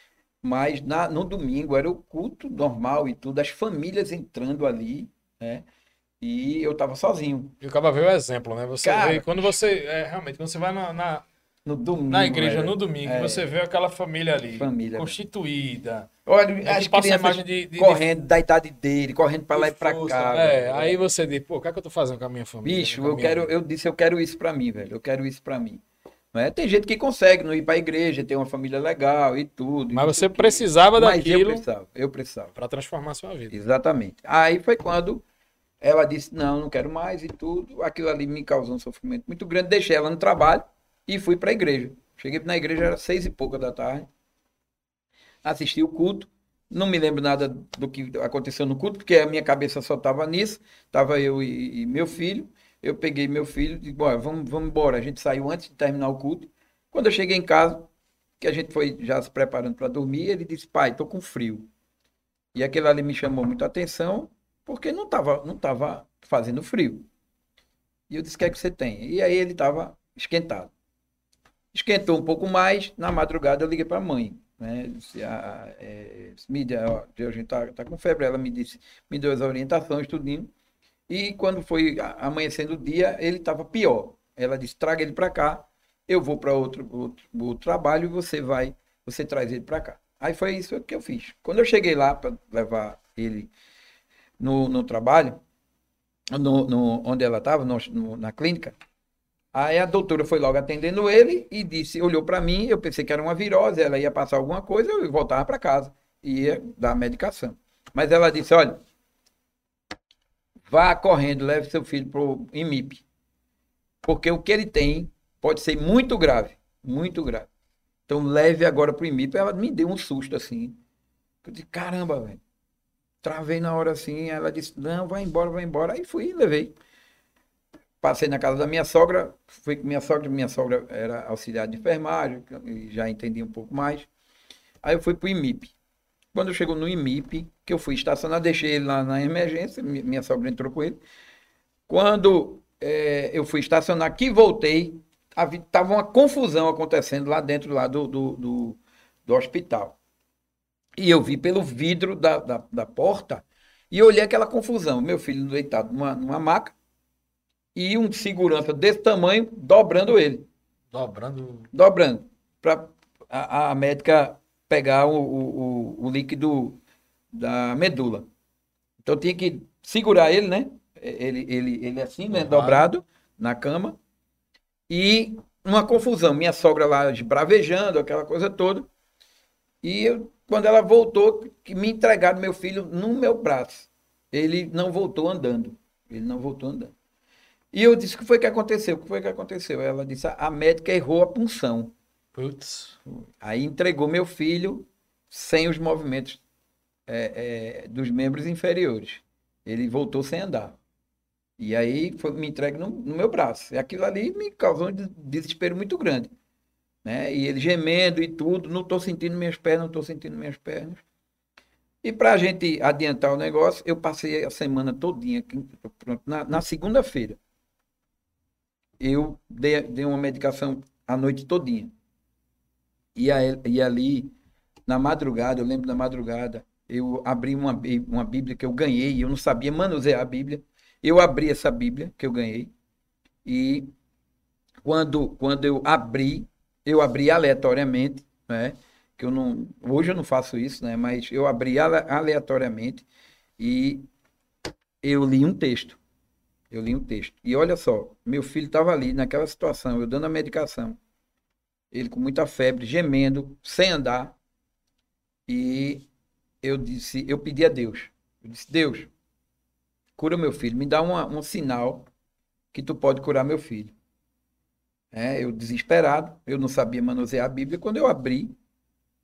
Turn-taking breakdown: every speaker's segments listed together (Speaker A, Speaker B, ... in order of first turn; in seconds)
Speaker A: 0.4-5.6, 6.2-7.6, 8.8-9.5, 11.7-13.5, 14.5-15.2, 16.3-21.0, 22.6-25.8, 26.3-32.5, 33.5-35.2, 35.8-44.1, 45.4-57.9, 58.4-61.7, 62.5-67.1, 68.1-70.7, 71.7-80.5, 81.1-93.5, 94.4-95.4, 96.3-98.8, 99.5-108.8, 110.7-113.0, 114.0-117.5, 118.1-120.8, 121.4-122.4, 123.2-126.7, 128.0-134.1, 134.8-135.7, 136.3-141.0, 141.9-150.0, 151.0-156.8, 157.8-160.5, 161.7-166.8, 167.3-168.3, 169.0-174.0, 174.9-178.9, 179.8-186.9, 187.7-191.9, 193.1-196.4, 197.1-200.8, 201.6-206.3, 207.1-211.0, 212.0-217.4, 219.0-221.9, 223.2-224.3, 224.9-232.7, 233.4-233.9, 234.8-243.1, 243.6-244.1, 245.0-246.0, 246.7-251.0, 251.9-254.4, 255.5-256.1, 256.6-259.1, 260.2-262.1, 262.7-263.9, 265.1-268.6
Speaker B: 7.6-11.2, 12.1-16.1, 16.6-18.1, 19.5-23.5, 29.9-31.6, 32.6-33.6, 160.9-161.7, 172.3-172.9, 192.3-193.0